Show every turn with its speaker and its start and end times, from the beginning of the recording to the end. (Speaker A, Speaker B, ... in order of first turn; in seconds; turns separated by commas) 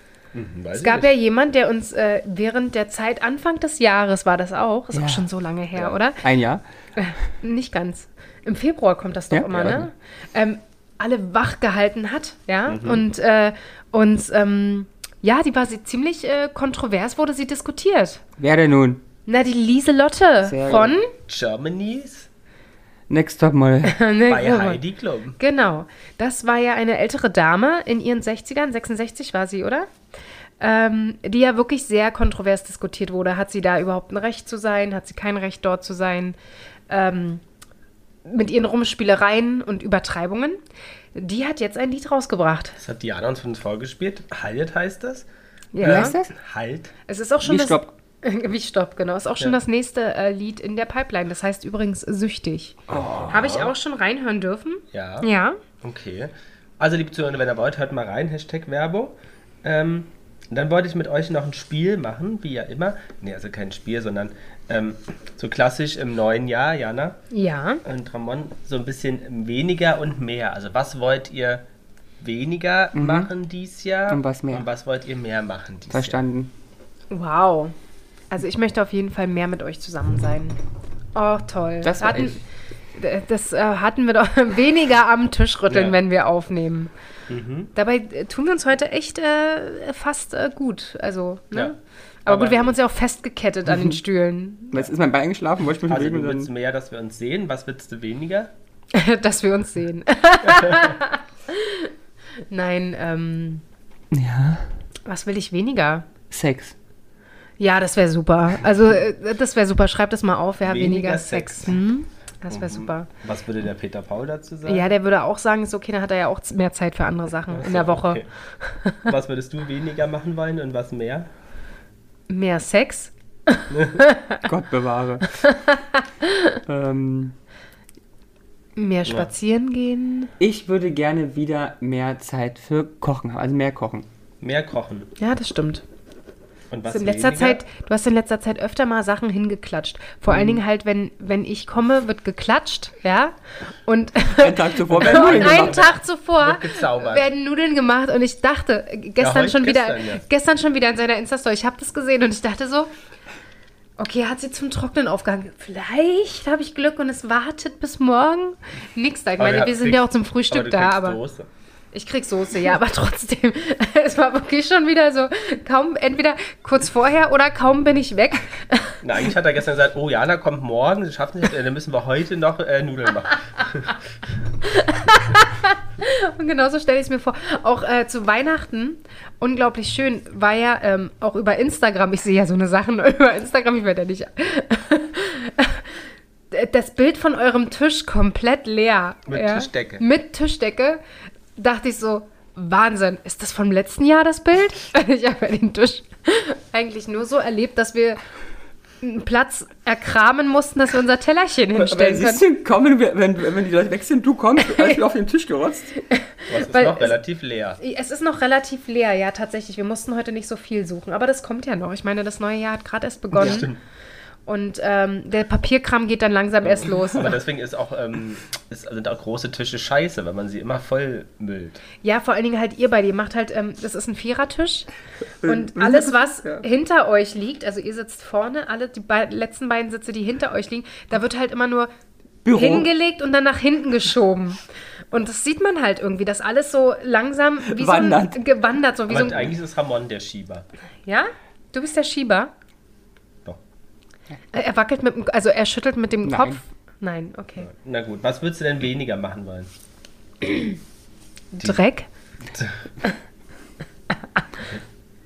Speaker A: 0.3-1.1, Speaker B: 0.8-6.2, Speaker C: 4.9-5.3, Speaker C: 6.2-6.6, Speaker B: 7.0-18.2, Speaker C: 9.3-9.8, Speaker A: 9.5-9.8, Speaker A: 12.7-13.0, Speaker C: 18.4-19.0, Speaker B: 19.3-21.1, Speaker C: 20.4-20.9, Speaker A: 20.6-22.3, Speaker C: 23.1-24.0, Speaker B: 23.8-24.8, Speaker A: 24.2-25.4, Speaker B: 25.4-29.9, Speaker B: 30.6-36.4, Speaker B: 36.9-37.4, Speaker B: 38.2-40.6, Speaker B: 41.1-42.8, Speaker A: 42.8-45.3, Speaker B: 45.7-46.2, Speaker A: 45.8-46.9, Speaker C: 45.8-46.3, Speaker B: 47.1-52.8, Speaker C: 47.4-47.9, Speaker A: 52.9-53.7, Speaker C: 52.9-53.3, Speaker B: 53.3-55.6, Speaker A: 54.9-55.3, Speaker A: 55.8-67.2, Speaker B: 67.3-67.8, Speaker A: 67.8-71.6, Speaker A: 72.2-76.2, Speaker C: 72.9-73.3, Speaker C: 74.1-74.7, Speaker C: 75.9-76.5, Speaker B: 77.1-77.7, Speaker B: 78.3-80.6, Speaker B: 81.1-82.4, Speaker C: 81.8-82.4, Speaker B: 83.0-86.9, Speaker A: 85.7-86.0, Speaker A: 87.3-87.7, Speaker B: 87.7-94.8, Speaker A: 91.5-92.7, Speaker C: 94.7-96.5, Speaker A: 95.8-98.5, Speaker B: 98.9-101.9, Speaker A: 100.4-101.0, Speaker B: 102.5-103.6, Speaker C: 104.1-104.7, Speaker B: 105.0-106.1, Speaker C: 106.3-106.7, Speaker B: 107.6-113.1, Speaker A: 110.6-111.8, Speaker A: 112.5-114.9, Speaker B: 114.7-119.1, Speaker A: 117.5-118.3, Speaker A: 119.0-121.3, Speaker B: 122.3-124.4, Speaker A: 123.7-124.0, Speaker C: 124.4-125.4, Speaker B: 125.3-126.6, Speaker C: 126.7-127.3, Speaker B: 128.8-130.3, Speaker C: 130.4-134.1, Speaker A: 134.4-135.1, Speaker B: 135.2-135.8, Speaker A: 136.7-137.6, Speaker B: 136.9-152.9, Speaker C: 140.3-140.6, Speaker C: 144.4-145.9, Speaker A: 144.9-147.3, Speaker A: 149.2-150.2, Speaker B: 154.0-161.2, Speaker A: 159.4-161.5, Speaker B: 161.9-169.0, Speaker A: 169.0-174.0, Speaker B: 174.6-185.9, Speaker B: 186.5-191.0, Speaker A: 189.3-190.0, Speaker B: 191.6-198.2, Speaker B: 199.0-202.4, Speaker C: 201.7-205.9, Speaker B: 204.6-205.0, Speaker B: 206.0-207.2, Speaker A: 206.5-207.8, Speaker B: 207.8-213.7, Speaker A: 213.3-213.8, Speaker B: 214.5-217.3, Speaker A: 216.7-221.8, Speaker B: 222.0-224.9, Speaker C: 225.4-226.6, Speaker B: 225.4-231.9, Speaker C: 232.4-232.9, Speaker B: 232.5-234.6, Speaker B: 235.1-239.6, Speaker C: 237.7-238.4, Speaker A: 239.1-240.7, Speaker B: 241.0-242.5, Speaker B: 244.5-247.7, Speaker C: 246.2-246.6, Speaker A: 247.6-249.7, Speaker B: 250.4-250.7, Speaker B: 251.5-252.1